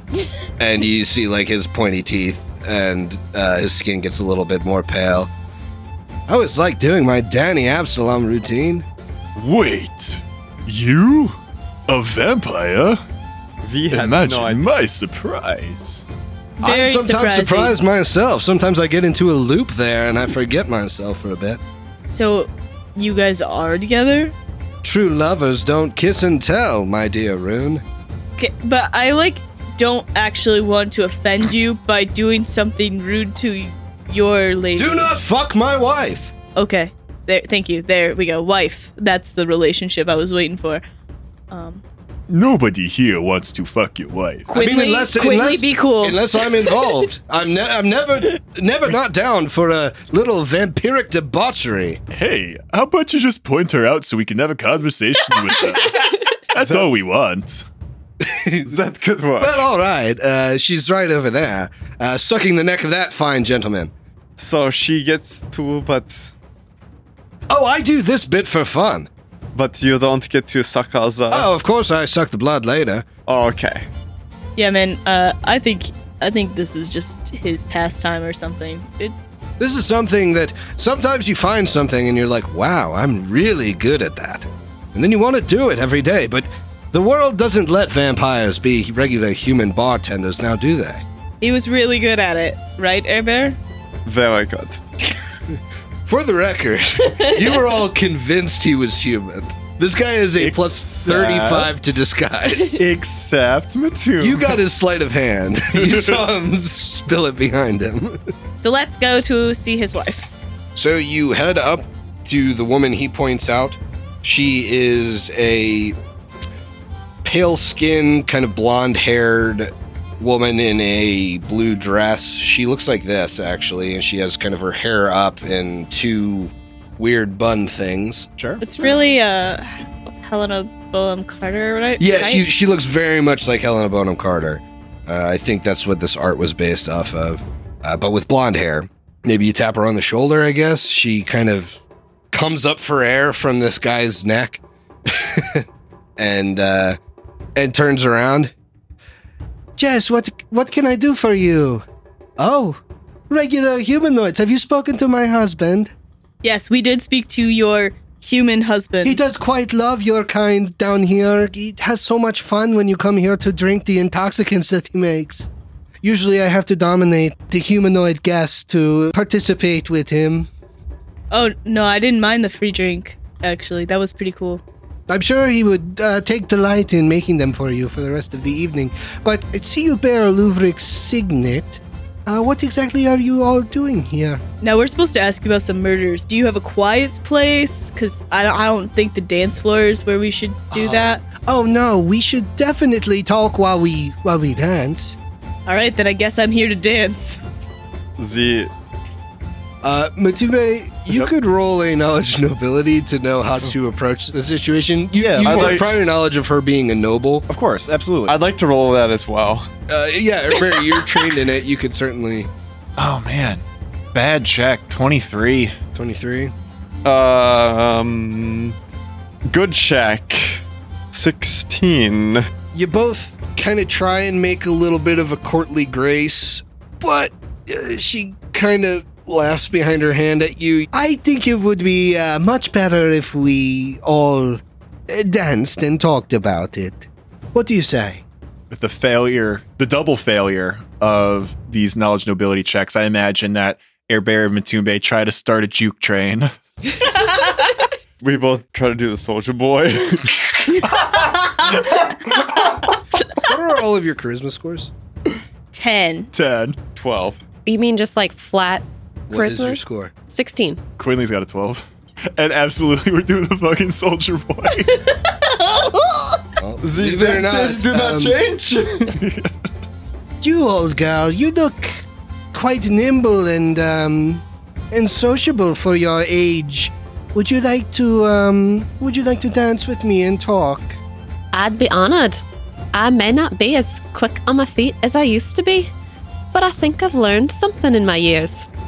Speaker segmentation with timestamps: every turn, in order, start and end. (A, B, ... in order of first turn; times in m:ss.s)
0:00.6-0:05.3 A
0:06.3-0:08.8 A
0:09.4-0:13.0 B
0:13.6-0:14.6 C
0:13.9-0:16.0 B
0:16.6-0:17.7 D
0:16.6-0:21.6 A
0:22.1-0:24.3 D
0:24.8-0:27.8 A
0:28.4-0:35.1 D
0:34.8-0:36.3 A
0:36.5-0:40.8 D
0:41.5-0:41.8 D
0:42.3-0:44.5 B
0:44.5-0:46.9 D
0:44.5-0:52.0 A
0:52.1-0:57.6 B
0:56.6-0:56.9 C
0:58.2-0:58.8 A
0:58.6-0:59.6 C
0:59.4-1:03.9 A
1:04.4-1:06.3 C
1:07.5-1:09.1 A
1:09.5-1:11.5 C
1:11.3-1:13.1 A
1:13.3-1:13.8 C
1:14.6-1:19.2 D
1:19.6-1:31.0 A
1:31.4-1:33.6 D
1:34.0-1:34.8 C
1:35.5-1:42.8 A
1:37.2-1:37.6 D
1:40.4-1:41.7 B
1:42.7-1:44.5 B
1:44.2-1:48.2 A
1:45.8-1:46.1 B
1:48.6-1:50.3 D
1:50.8-1:56.0 A
1:57.2-2:08.3 A
2:08.4-2:08.6 B
2:08.6-2:12.4 D
2:12.0-2:25.6 A
2:26.2-2:27.0 A
2:27.6-2:28.5 A
2:29.8-2:31.8 A
2:32.4-2:35.9 A
2:36.4-2:39.2 D
2:39.0-2:45.5 A
2:46.0-2:50.5 A
2:51.3-2:54.6 D
2:55.1-3:04.4 A
3:04.6-3:11.2 D
3:10.7-3:15.2 A
3:15.7-3:17.4 D
3:18.2-3:18.7 C
3:19.8-3:27.4 A
3:25.2-3:25.9 B
3:25.4-3:25.9 C
3:27.5-3:28.4 B
3:28.3-3:29.7 C
3:29.9-3:32.5 A
3:33.0-3:33.6 B
3:34.1-3:35.7 B
3:35.9-3:36.5 A
3:37.0-3:38.8 C
3:39.5-3:42.5 C
3:42.7-3:58.2 A
3:58.7-4:06.5 B
4:08.2-4:10.4 C
4:13.4-4:14.9 A
4:15.7-4:16.3 D
4:16.3-4:16.8 B
4:17.0-4:17.4 C
4:17.6-4:20.8 E
4:19.3-4:20.1 A
4:21.0-4:25.0 B
4:25.3-4:26.4 D
4:26.6-4:28.4 A
4:26.8-4:29.2 C
4:29.2-4:29.5 B
4:30.4-4:41.0 A
4:41.5-4:45.9 E
4:46.5-4:48.7 E